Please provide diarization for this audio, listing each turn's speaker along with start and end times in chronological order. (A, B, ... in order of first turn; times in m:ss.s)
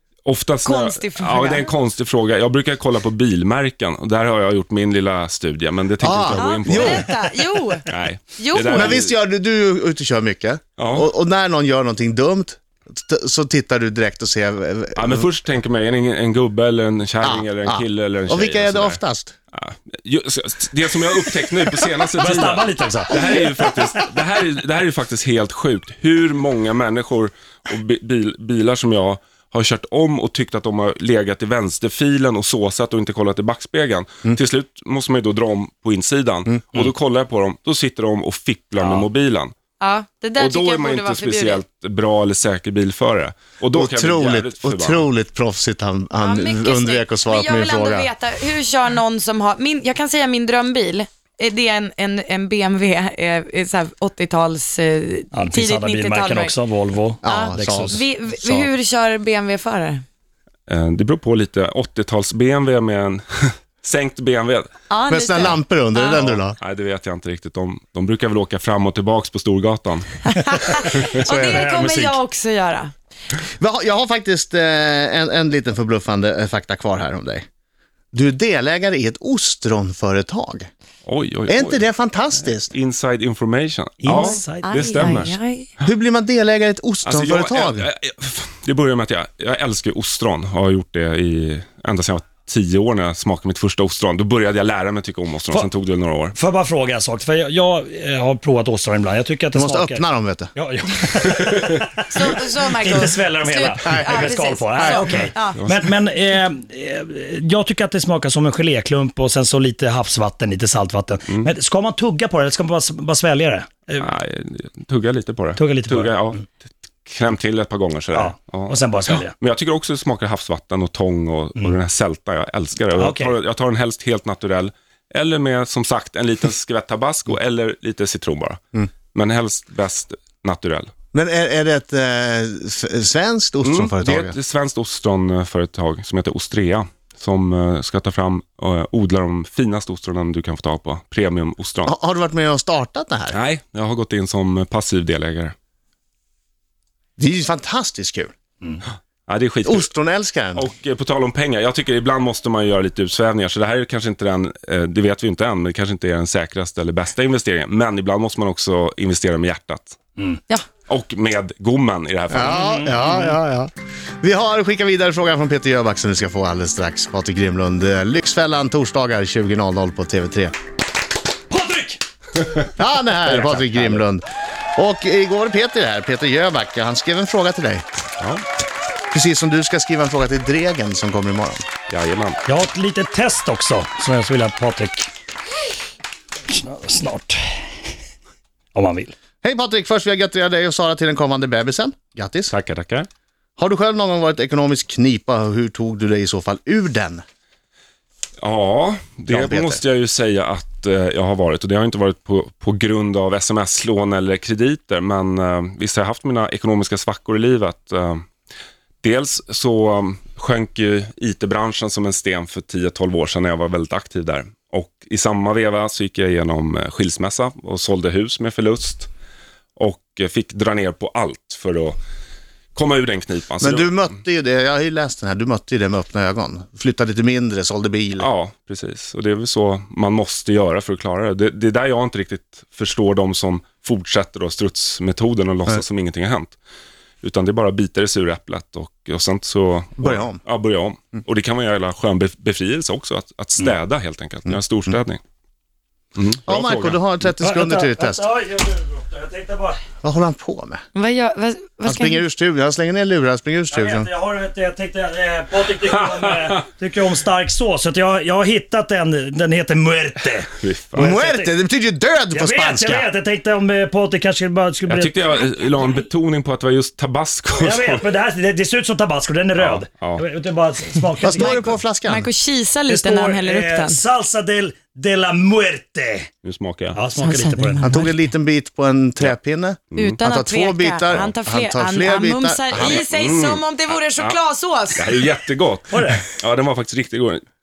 0:00.2-0:07.1 A
0:00.6-0:01.7 B
0:06.0-0:07.0 C
0:06.4-0:09.0 B
0:07.9-0:09.1 A
0:08.7-0:15.2 C
0:10.8-0:11.1 A
0:15.0-0:19.0 A
0:17.2-0:19.3 C
0:19.5-0:39.5 A
0:22.2-0:23.7 D
0:39.8-0:41.6 B
0:40.4-0:45.0 A
0:43.7-0:48.1 C
0:46.2-0:56.5 B
0:55.3-0:58.0 D
0:57.2-0:58.7 C
0:57.2-1:00.0 B
1:00.7-1:04.7 A
1:04.9-1:06.2 B
1:05.1-1:06.6 C
1:06.2-1:10.2 A
1:10.3-1:12.9 B
1:10.8-1:11.2 A
1:11.2-1:12.2 D
1:13.6-1:17.4 C
1:18.1-1:20.7 C
1:21.0-1:21.8 A
1:21.5-1:22.7 C
1:22.4-1:25.4 A
1:24.0-1:25.2 D
1:24.1-1:25.7 B
1:25.8-1:27.9 C
1:27.0-1:36.4 A
1:36.3-1:40.0 D
1:39.5-1:40.5 C
1:40.5-1:54.1 D
1:41.4-1:41.8 A
1:42.1-1:45.6 B
1:43.8-1:44.1 C
1:54.0-1:56.5 A
1:55.6-1:56.4 D
1:57.0-2:08.6 A
1:58.1-1:59.3 D
2:02.9-2:03.3 D
2:09.1-2:10.9 A
2:11.1-2:14.3 C
2:13.6-2:21.9 A
2:21.8-2:23.4 C
2:23.3-2:25.5 A
2:27.2-2:28.3 C
2:29.3-2:29.9 A
2:29.6-2:30.6 C
2:30.6-2:40.0 A
2:40.9-2:42.7 A
2:42.3-2:50.5 C
2:42.5-2:43.3 D
2:51.5-2:52.0 D
2:52.8-2:54.2 C
2:53.3-2:53.6 A
2:54.8-2:58.0 C
2:59.1-3:01.6 C
3:01.9-3:02.4 A
3:02.4-3:05.1 D
3:06.5-3:07.7 D
3:08.7-3:09.1 D
3:09.4-3:12.5 C
3:12.5-3:13.1 A
3:13.6-3:17.2 C
3:18.4-3:28.2 A
3:19.3-3:19.8 C
3:29.0-3:39.1 A
3:39.8-3:42.0 A
3:42.7-3:44.0 A
3:43.6-3:48.3 C
3:48.2-3:56.6 A
3:57.2-4:05.2 A
4:00.0-4:00.4 C
4:06.1-4:07.0 A
4:06.5-4:08.2 C
4:07.4-4:09.8 D
4:10.0-4:10.8 C
4:10.9-4:12.2 B
4:11.8-4:14.1 C
4:13.7-4:21.5 D
4:16.1-4:16.6 A
4:20.6-4:21.1 A
4:21.0-4:23.1 C
4:22.3-4:25.2 D
4:24.9-4:28.1 A
4:25.6-4:26.0 B
4:27.6-4:31.6 D
4:29.6-4:30.2 A
4:31.2-4:32.3 C
4:31.4-4:34.0 B
4:32.9-4:36.3 D
4:36.4-4:37.0 A
4:36.9-4:38.1 D
4:37.2-4:37.8 B
4:37.8-4:43.0 C
4:39.9-4:40.2 A
4:40.0-4:45.2 B
4:42.7-4:44.4 A
4:44.9-4:47.4 A
4:45.9-4:46.3 D